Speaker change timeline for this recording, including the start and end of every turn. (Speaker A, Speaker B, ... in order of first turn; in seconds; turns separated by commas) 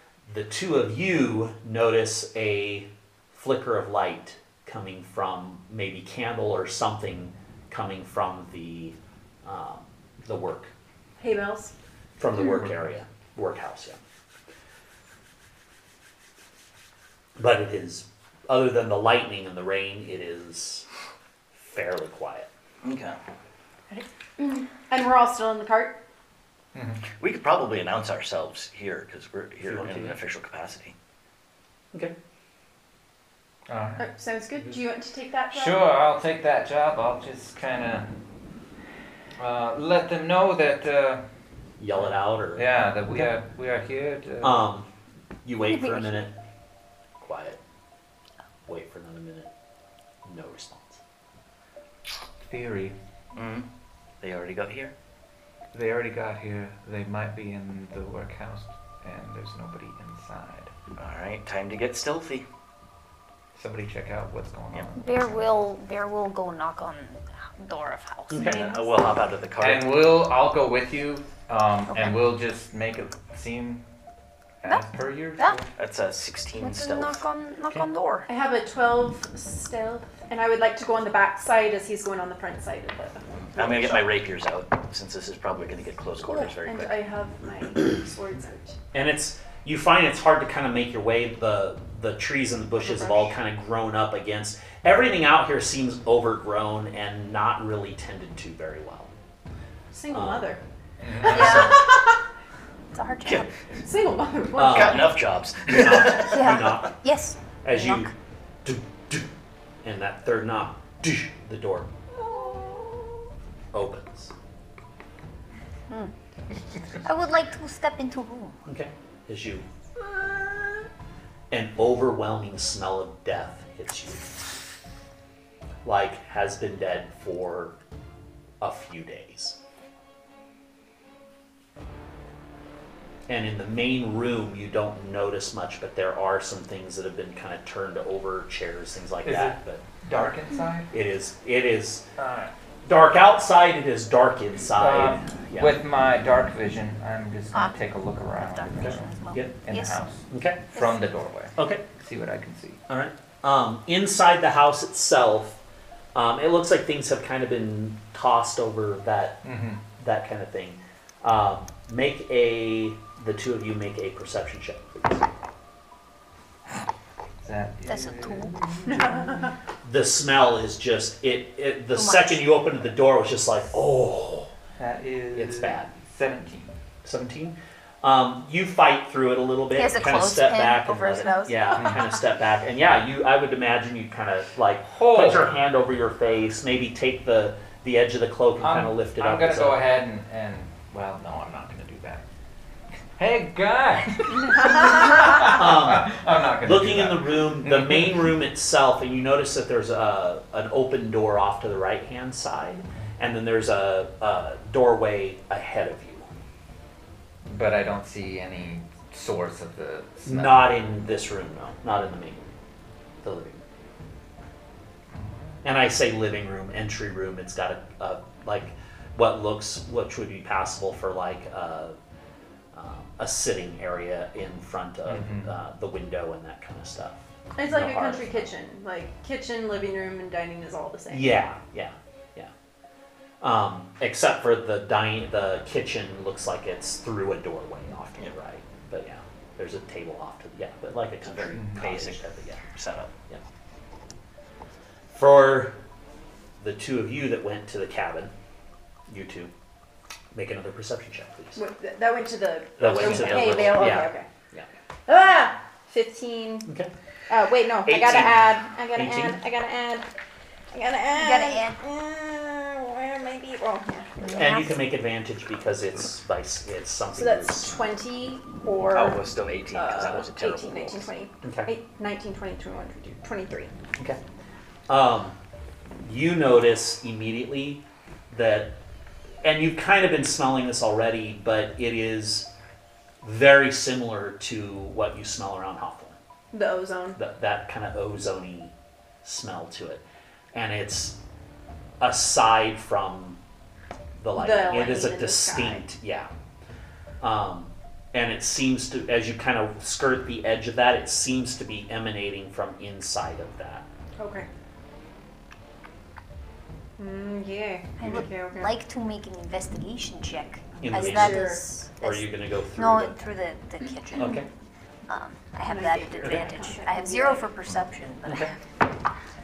Speaker A: 0.3-10.7, Speaker B: 11.2-11.7, Speaker A: 12.2-14.0, Speaker A: 17.4-20.9, Speaker A: 21.6-22.5, Speaker C: 22.8-23.2, Speaker B: 23.9-26.0, Speaker D: 26.8-27.0, Speaker C: 27.2-30.9, Speaker A: 29.6-30.2, Speaker D: 33.7-34.1, Speaker B: 34.0-35.9, Speaker D: 35.5-38.1, Speaker D: 39.4-41.2, Speaker A: 41.8-42.7, Speaker D: 42.0-44.6, Speaker A: 44.4-44.9, Speaker A: 45.4-46.4, Speaker E: 45.6-46.2, Speaker A: 47.2-47.6, Speaker A: 48.7-49.5, Speaker A: 50.2-51.0, Speaker D: 52.4-53.0, Speaker C: 53.3-53.6, Speaker C: 54.2-54.9, Speaker D: 55.7-60.7, Speaker C: 61.0-62.5, Speaker D: 63.5-65.5, Speaker E: 65.0-68.6, Speaker A: 68.3-68.6, Speaker B: 68.4-69.2, Speaker C: 68.5-69.9, Speaker D: 69.6-73.9, Speaker E: 71.9-72.3, Speaker D: 74.6-75.7, Speaker C: 75.8-77.2, Speaker E: 76.6-78.3, Speaker B: 78.3-84.1, Speaker C: 83.4-87.0, Speaker B: 86.3-88.8, Speaker A: 88.9-99.1, Speaker B: 92.8-93.3, Speaker B: 99.9-100.6, Speaker A: 100.1-100.6, Speaker D: 101.0-101.6, Speaker B: 101.2-102.2, Speaker E: 101.2-101.9, Speaker E: 102.9-103.5, Speaker C: 103.2-103.5, Speaker B: 103.8-105.2, Speaker A: 104.6-107.0, Speaker C: 104.6-106.8, Speaker E: 106.2-108.1, Speaker A: 107.6-108.1, Speaker A: 108.6-109.3, Speaker A: 109.8-111.9, Speaker A: 113.7-114.3, Speaker E: 117.0-118.6, Speaker A: 118.7-119.7, Speaker A: 121.5-124.3, Speaker A: 125.8-127.8, Speaker A: 128.6-129.6, Speaker A: 133.3-139.8, Speaker D: 139.2-140.9, Speaker A: 140.9-142.1, Speaker D: 142.2-142.5, Speaker A: 142.8-145.8, Speaker D: 144.7-152.8, Speaker E: 147.5-147.8, Speaker E: 148.3-150.0, Speaker A: 148.8-149.6, Speaker A: 150.3-150.7, Speaker E: 150.8-151.0, Speaker A: 151.6-151.8, Speaker A: 152.9-155.6, Speaker A: 156.1-159.5, Speaker D: 159.4-159.8, Speaker A: 160.0-165.3, Speaker D: 167.4-169.5, Speaker E: 167.9-168.5, Speaker B: 168.9-169.5, Speaker A: 169.8-174.5, Speaker E: 171.9-172.5, Speaker D: 174.8-176.8, Speaker A: 175.3-175.9, Speaker A: 177.0-189.8, Speaker E: 179.8-182.0, Speaker D: 181.8-182.0, Speaker D: 184.8-185.5, Speaker D: 188.6-192.2, Speaker D: 193.2-198.3, Speaker A: 195.4-206.3, Speaker D: 207.4-210.8, Speaker A: 210.2-212.5, Speaker A: 213.2-213.6, Speaker D: 215.2-215.5, Speaker A: 215.6-222.0, Speaker A: 222.7-228.5, Speaker D: 225.1-225.5, Speaker B: 227.6-231.4, Speaker A: 231.1-232.5, Speaker A: 233.4-242.6, Speaker C: 241.2-243.1, Speaker A: 245.1-245.8, Speaker A: 246.6-248.3, Speaker A: 249.1-249.5, Speaker A: 250.3-251.6, Speaker B: 251.6-254.3, Speaker A: 252.8-254.7, Speaker C: 252.8-253.9, Speaker B: 255.1-256.7, Speaker A: 256.6-256.9, Speaker B: 257.3-260.1, Speaker A: 257.9-259.4, Speaker B: 260.7-264.4, Speaker E: 261.1-261.8, Speaker E: 264.2-264.8, Speaker A: 264.3-267.8, Speaker B: 267.1-273.7, Speaker C: 268.9-271.1, Speaker A: 271.4-271.7, Speaker A: 274.9-275.4, Speaker A: 276.0-278.8, Speaker A: 279.4-282.5, Speaker A: 283.2-286.1, Speaker B: 286.5-287.2, Speaker A: 287.1-290.0, Speaker A: 290.5-291.2, Speaker A: 292.0-293.4, Speaker A: 294.2-296.3, Speaker B: 294.4-295.9, Speaker A: 297.2-303.9, Speaker B: 304.2-304.5, Speaker B: 307.0-308.8, Speaker E: 308.0-314.4, Speaker A: 310.8-313.2, Speaker B: 310.9-311.6, Speaker A: 314.1-314.5, Speaker E: 315.1-318.6, Speaker B: 315.6-317.5, Speaker A: 316.2-316.5, Speaker A: 318.3-318.5